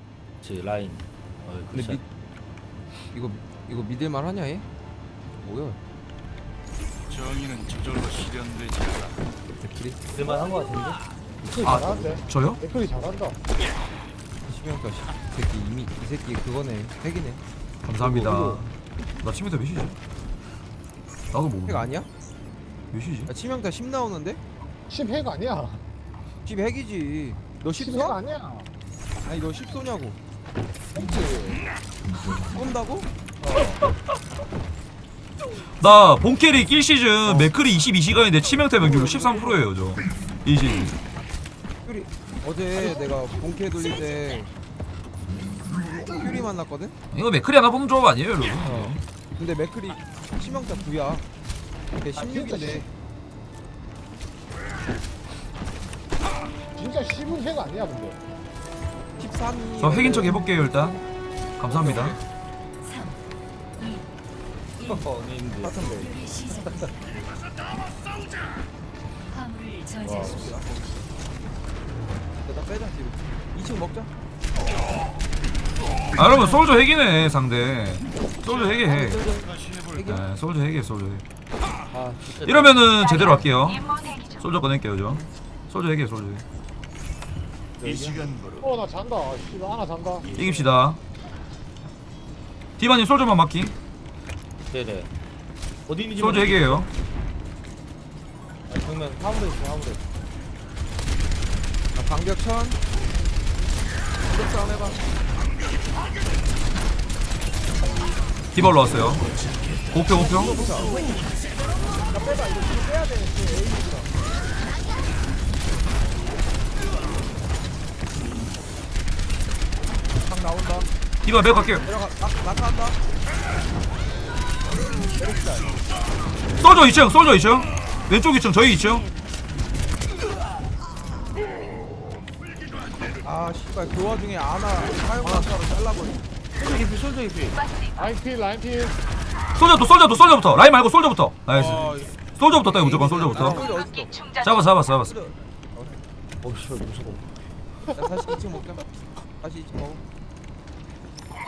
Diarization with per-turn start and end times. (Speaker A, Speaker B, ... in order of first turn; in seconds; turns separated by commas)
Speaker A: 0.4-2.0, Speaker B: 1.7-2.0, Speaker B: 3.1-4.7, Speaker B: 5.4-5.8, Speaker C: 7.2-9.1, Speaker B: 9.5-10.0, Speaker A: 10.1-12.0, Speaker D: 11.6-12.6, Speaker E: 12.7-13.3, Speaker B: 14.5-17.4, Speaker D: 17.8-20.0, Speaker A: 18.0-18.6, Speaker D: 21.3-21.9, Speaker B: 21.7-22.1, Speaker D: 22.9-23.3, Speaker B: 23.3-24.4, Speaker E: 24.9-25.7, Speaker B: 26.5-28.2, Speaker B: 29.2-30.2, Speaker A: 31.0-31.6, Speaker B: 32.4-33.6, Speaker D: 35.8-41.0, Speaker B: 41.9-44.5, Speaker B: 45.8-47.0, Speaker D: 47.1-49.0, Speaker B: 48.6-51.2, Speaker B: 52.0-52.9, Speaker A: 52.2-52.8, Speaker E: 56.8-58.1, Speaker B: 59.2-60.4, Speaker D: 59.8-61.0, Speaker D: 61.6-62.2, Speaker B: 61.7-62.2, Speaker A: 64.8-65.8, Speaker B: 65.6-66.3, Speaker B: 70.0-71.0, Speaker B: 72.5-74.1, Speaker D: 76.2-79.2, Speaker B: 78.9-80.2, Speaker D: 80.0-81.2, Speaker A: 81.9-82.8, Speaker D: 82.4-86.4, Speaker E: 88.6-90.2, Speaker D: 90.2-91.0, Speaker D: 92.8-93.7, Speaker A: 94.7-95.1, Speaker A: 95.9-96.9, Speaker D: 96.2-96.9, Speaker A: 98.7-100.0, Speaker B: 102.0-102.8, Speaker B: 104.3-105.0, Speaker D: 108.5-109.3, Speaker D: 109.9-110.5, Speaker B: 110.1-111.0, Speaker B: 112.1-114.1, Speaker B: 120.2-120.9, Speaker D: 121.2-121.9, Speaker B: 121.8-123.0, Speaker B: 125.2-125.7, Speaker D: 126.6-129.1, Speaker B: 133.2-136.3, Speaker A: 135.2-135.6, Speaker A: 136.6-137.6, Speaker E: 138.0-138.9, Speaker D: 139.6-143.7, Speaker B: 141.5-142.2, Speaker A: 142.8-143.7, Speaker B: 142.9-146.0, Speaker D: 144.4-145.1, Speaker A: 146.4-147.2, Speaker B: 147.9-148.8, Speaker B: 149.4-150.0